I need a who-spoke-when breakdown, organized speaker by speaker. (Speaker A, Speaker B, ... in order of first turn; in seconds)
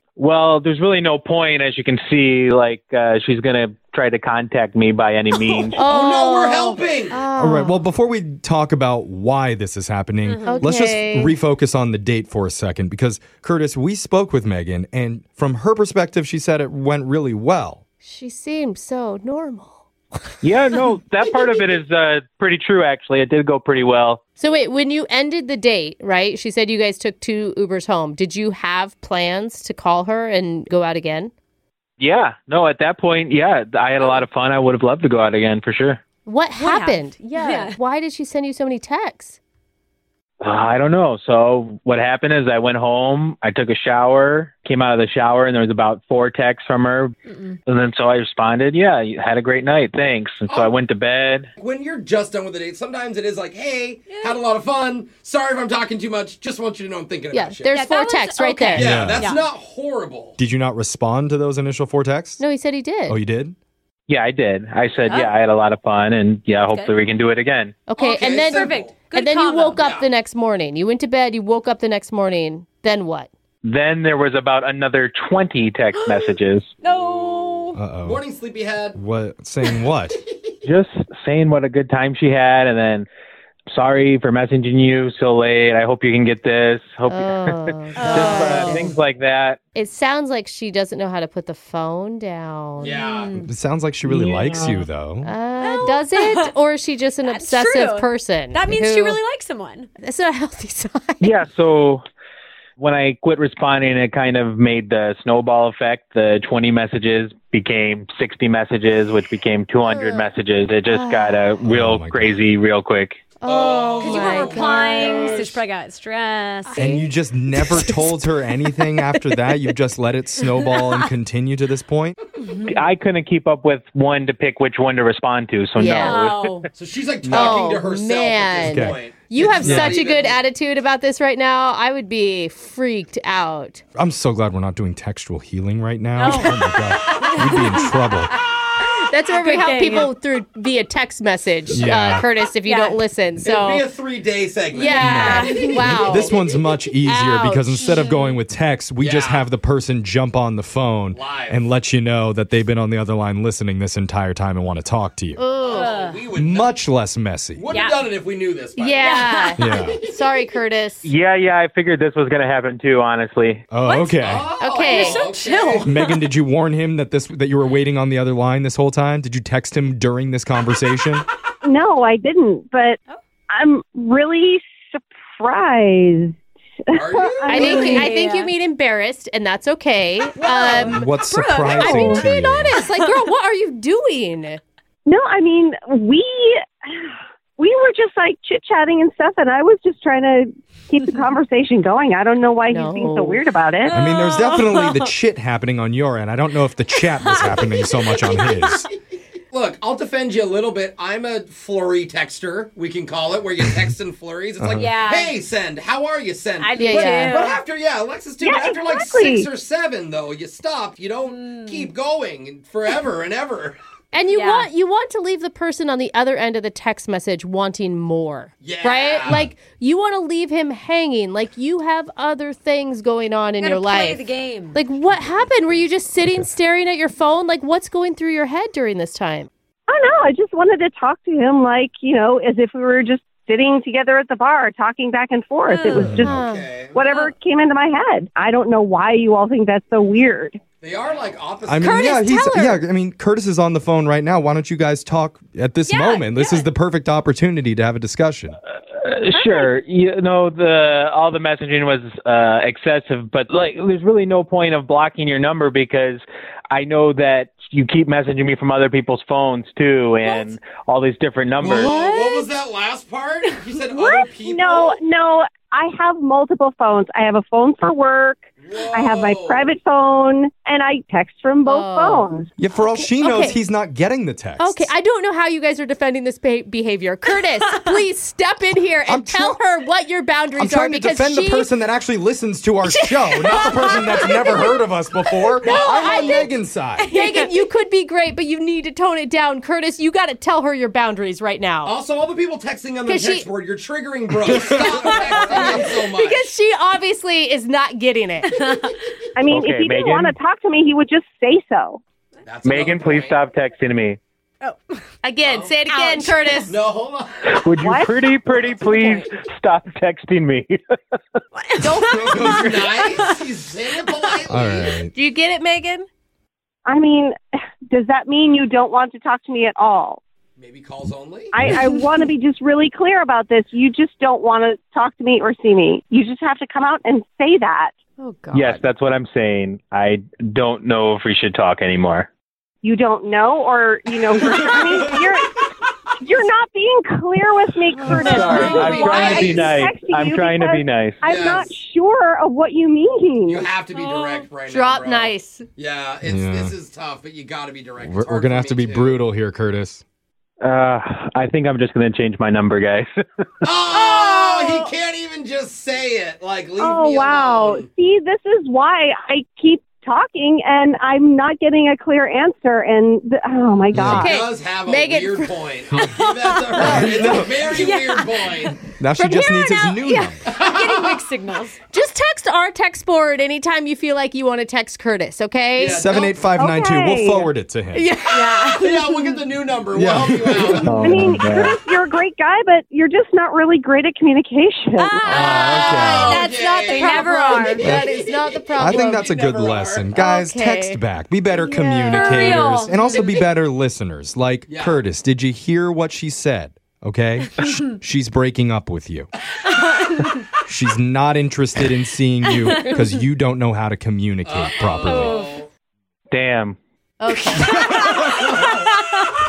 Speaker A: 0.2-5.8, 20.4-24.2, 32.0-36.0, 40.4-47.1, 47.7-51.5, 64.1-67.8, 73.6-76.7, 80.6-83.1, 83.7-89.6, 94.2-94.7, 101.2-102.0, 102.8-113.2, 122.6-126.6, 161.0-163.6, 248.9-261.9, 299.5-300.3, 302.6-304.2, 307.4-310.8, 328.5-332.3, 338.2-341.2, 350.6-353.2, 380.9-381.8, 406.3-406.8
Speaker B: 5.7-7.2, 50.5-50.8, 51.6-57.9, 58.7-60.4, 68.0-68.9, 69.8-70.1, 76.8-79.0, 92.8-93.4, 113.4-115.6, 126.7-130.4, 143.4-146.6, 149.0-149.5, 151.1-151.7, 155.6-156.8, 157.5-159.6, 164.2-166.0, 176.9-178.0, 199.5-213.8, 218.6-219.4, 236.2-237.0, 240.8-242.1, 261.6-265.0, 268.6-269.8, 283.5-284.7, 285.6-286.5, 291.8-296.5, 302.4-303.4, 305.4-305.7, 306.6-307.6, 308.5-309.0, 312.3-314.9, 320.6-321.6, 334.4-335.2, 338.0-339.8, 341.2-341.8, 343.4-349.2, 353.6-357.9, 363.9-368.8, 370.4-371.2, 375.8-376.5, 378.3-380.9, 385.5-390.1, 394.7-395.0, 404.4-405.7, 407.6-408.8
Speaker C: 5.8-7.8, 10.4-11.4, 18.0-20.3, 24.4-31.3, 36.2-39.4, 57.3-58.9, 62.4-63.2, 67.9-73.3, 87.1-88.9, 89.7-93.0, 95.2-99.2, 100.0-101.3, 109.9-110.3, 110.9-111.5, 113.4-115.4, 116.7-117.0, 125.8-126.2, 127.3-133.8, 138.9-143.8, 144.7-146.3, 147.0-147.9, 155.4-155.9, 158.8-161.1, 164.6-165.2, 177.5-181.1, 181.7-184.6, 192.7-193.4, 206.8-207.5, 214.1-229.5, 236.0-236.7, 271.6-272.3, 272.8-273.6, 274.6-281.7, 284.3-284.7, 285.6-286.5, 287.1-291.9, 293.1-293.5, 295.0-298.6, 305.2-306.8, 311.8-312.9, 315.0-316.1, 328.2-328.8, 338.0-339.3, 344.6-345.7, 363.9-365.7, 369.2-370.4, 371.9-376.1, 386.9-389.3, 390.1-391.0, 392.1-392.6, 407.2-407.7
Speaker D: 7.4-17.8, 58.8-59.3, 60.4-62.4, 63.1-63.5, 77.7-78.2, 78.9-80.2, 93.4-95.3, 111.6-112.4, 116.8-122.2, 127.3-127.6, 128.6-129.0, 129.6-130.0, 133.9-138.3, 141.7-142.3, 144.9-155.4, 156.3-157.7, 159.6-160.0, 163.7-164.5, 165.8-171.2, 180.7-182.8, 193.9-198.9, 204.6-204.9, 235.9-236.4, 241.6-248.6, 272.6-274.9, 279.1-279.6, 280.6-287.1, 314.5-315.1, 346.2-346.7, 348.0-350.0, 363.9-364.3, 366.8-367.8, 368.9-370.5, 375.9-378.1, 379.9-381.2, 385.2-386.5, 387.8-388.1, 388.8-399.3, 400.6-405.4
Speaker E: 10.2-10.7, 36.5-37.8, 47.3-47.6, 54.1-54.4, 57.7-59.4, 65.0-65.3, 66.7-66.9, 68.5-69.8, 76.8-77.8, 88.0-88.8, 93.0-93.5, 95.6-96.5, 97.2-99.9, 114.0-116.9, 126.0-126.7, 136.2-138.3, 139.3-140.1, 142.6-143.0, 145.0-145.8, 147.8-148.4, 155.7-156.2, 157.7-158.0, 159.0-159.7, 163.8-166.2, 177.6-178.5, 180.6-182.3, 193.8-195.1, 197.2-198.8, 204.8-205.3, 206.6-207.6, 211.2-211.9, 214.3-214.7, 223.6-224.8, 235.7-236.2, 237.1-237.3, 241.8-242.8, 245.8-246.7, 249.3-249.7, 282.9-284.3, 287.0-287.5, 298.6-298.9, 304.6-305.0, 305.9-306.5, 308.9-309.3, 311.6-313.4, 366.0-367.0, 367.7-368.7, 370.1-371.8, 378.3-379.4, 385.0-387.8, 391.5-393.4, 399.7-400.4, 402.5-403.0, 405.1-405.5, 407.6-408.2
Speaker F: 171.6-173.0, 173.5-176.4, 176.9-178.1, 181.8-182.2, 185.1-193.9, 208.4-209.5, 229.9-236.3, 236.9-240.6, 261.6-262.1, 263.9-272.5, 299.3-302.0, 307.8-308.3, 316.9-317.3, 317.9-320.2, 321.5-327.9, 332.8-335.6, 336.2-343.7, 356.8-364.2, 376.6-377.5, 380.7-385.6